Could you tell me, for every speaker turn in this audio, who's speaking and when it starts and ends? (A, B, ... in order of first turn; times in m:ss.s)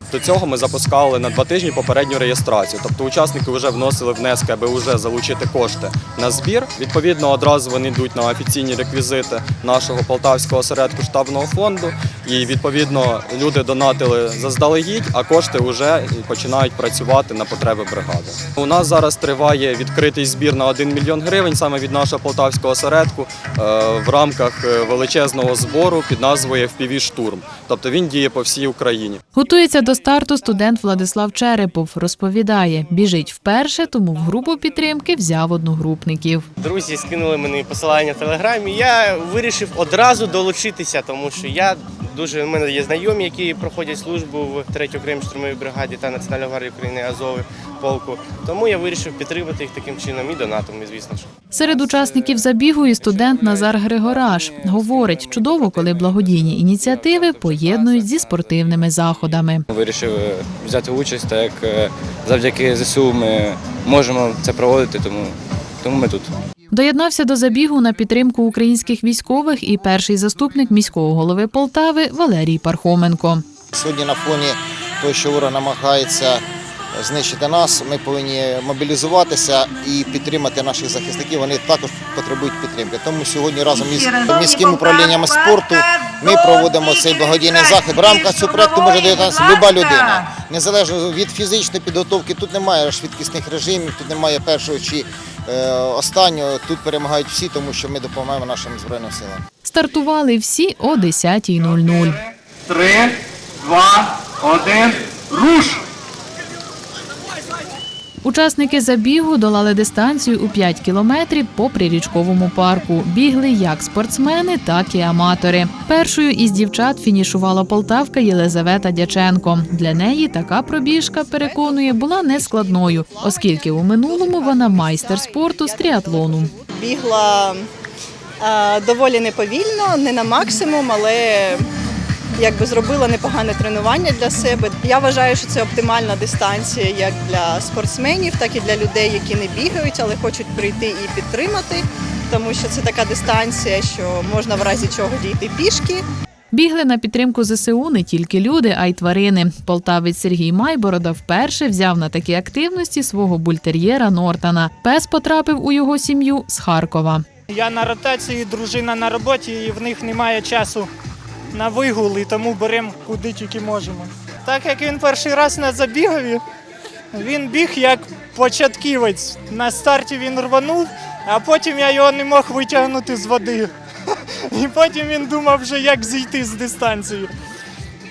0:00.1-0:29.2 A
0:29.4-0:36.5 B
0:36.6-0:51.6 C
0:51.5-0:59.7 B
0:51.6-1:06.3 D
1:06.7-1:13.4 B
1:13.7-1:39.4 E
1:39.6-1:42.2 B
1:48.2-2:06.5 B
2:01.4-2:07.7 F
2:08.4-2:11.7 F
2:12.4-2:26.0 F
2:26.5-2:37.2 B
2:37.5-2:40.9 G
2:41.6-2:46.4 G
2:47.1-2:53.7 G
2:54.5-2:57.3 G